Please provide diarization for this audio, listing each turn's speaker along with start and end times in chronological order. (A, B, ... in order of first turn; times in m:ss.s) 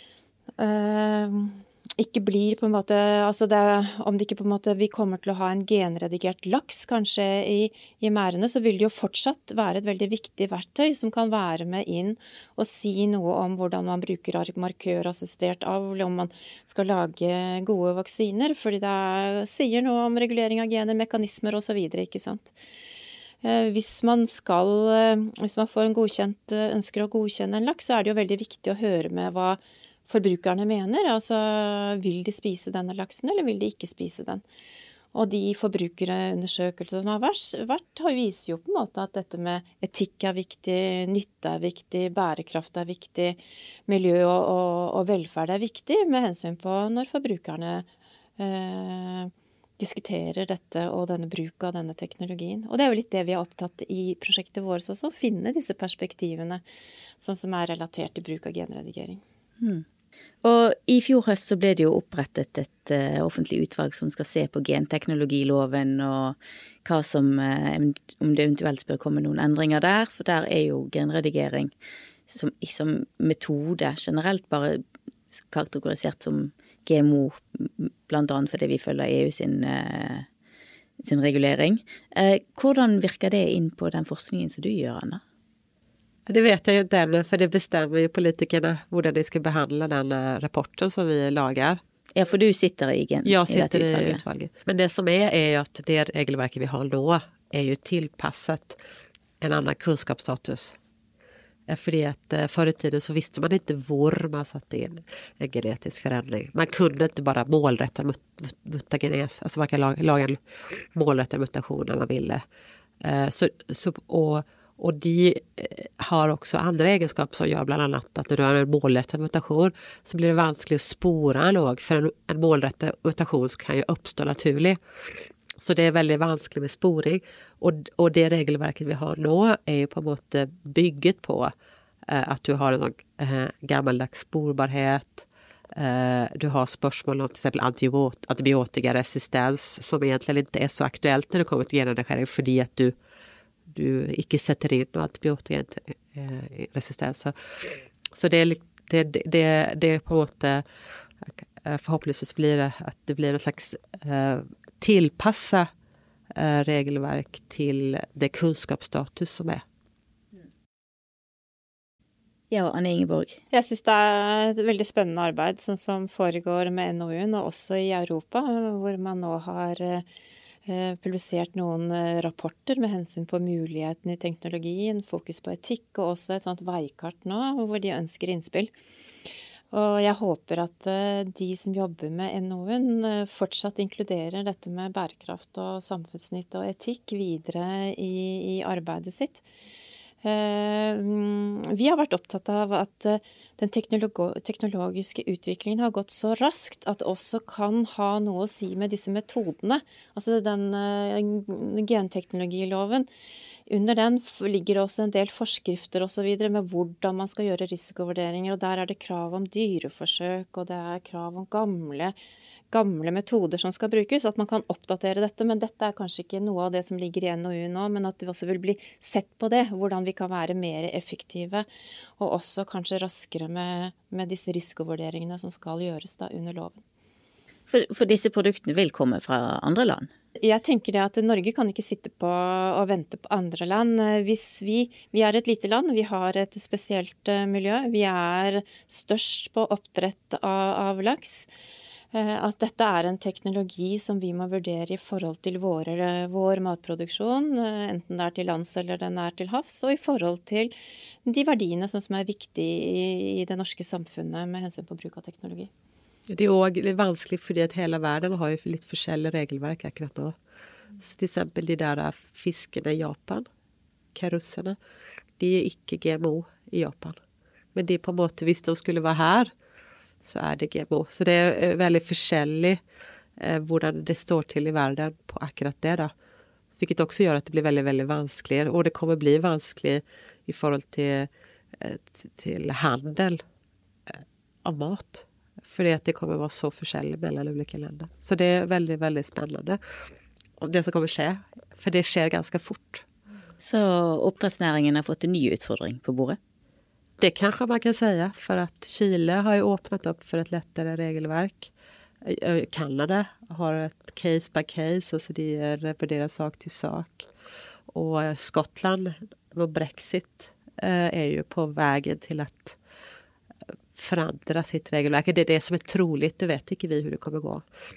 0:00.6-0:22.5 A
0:23.4-0:34.4 A
0:35.1-0:47.9 A
0:48.4-0:56.6 A
0:57.2-0:59.2 A
1:00.4-1:11.7 B
1:12.3-1:20.3 B
1:21.0-1:25.2 B
1:26.3-1:31.8 C
1:32.2-1:34.2 B
1:33.3-1:38.8 C
1:39.4-1:40.8 C
1:41.7-1:50.4 C
1:50.9-1:52.4 C
1:53.0-2:11.5 C
2:12.1-2:22.9 C
2:23.7-2:30.6 C
2:31.2-2:35.7 C
2:36.3-2:39.6 C
2:42.5-2:43.4 B
2:43.5-2:50.1 A
2:50.7-2:58.7 A
2:59.7-3:09.4 A
3:10.2-3:23.1 A
3:23.7-3:32.2 A
3:32.7-3:41.7 A
3:42.2-3:46.8 A
3:47.7-3:50.1 B
3:50.4-4:01.5 A
4:02.1-4:10.7 A
4:11.2-4:15.7 A
4:16.3-4:20.3 C
4:21.0-4:23.5 C
4:24.2-4:24.8 C
4:25.4-4:27.2 C
4:27.8-4:29.5 C
4:30.2-4:32.8 C
4:33.4-4:36.1 C
4:36.8-4:43.4 C
4:44.1-4:49.8 C
4:50.6-4:53.0 C
4:53.6-4:56.4 B
4:57.2-5:01.7 C
5:02.2-5:07.3 C
5:07.9-5:12.8 C
5:14.0-5:17.6 C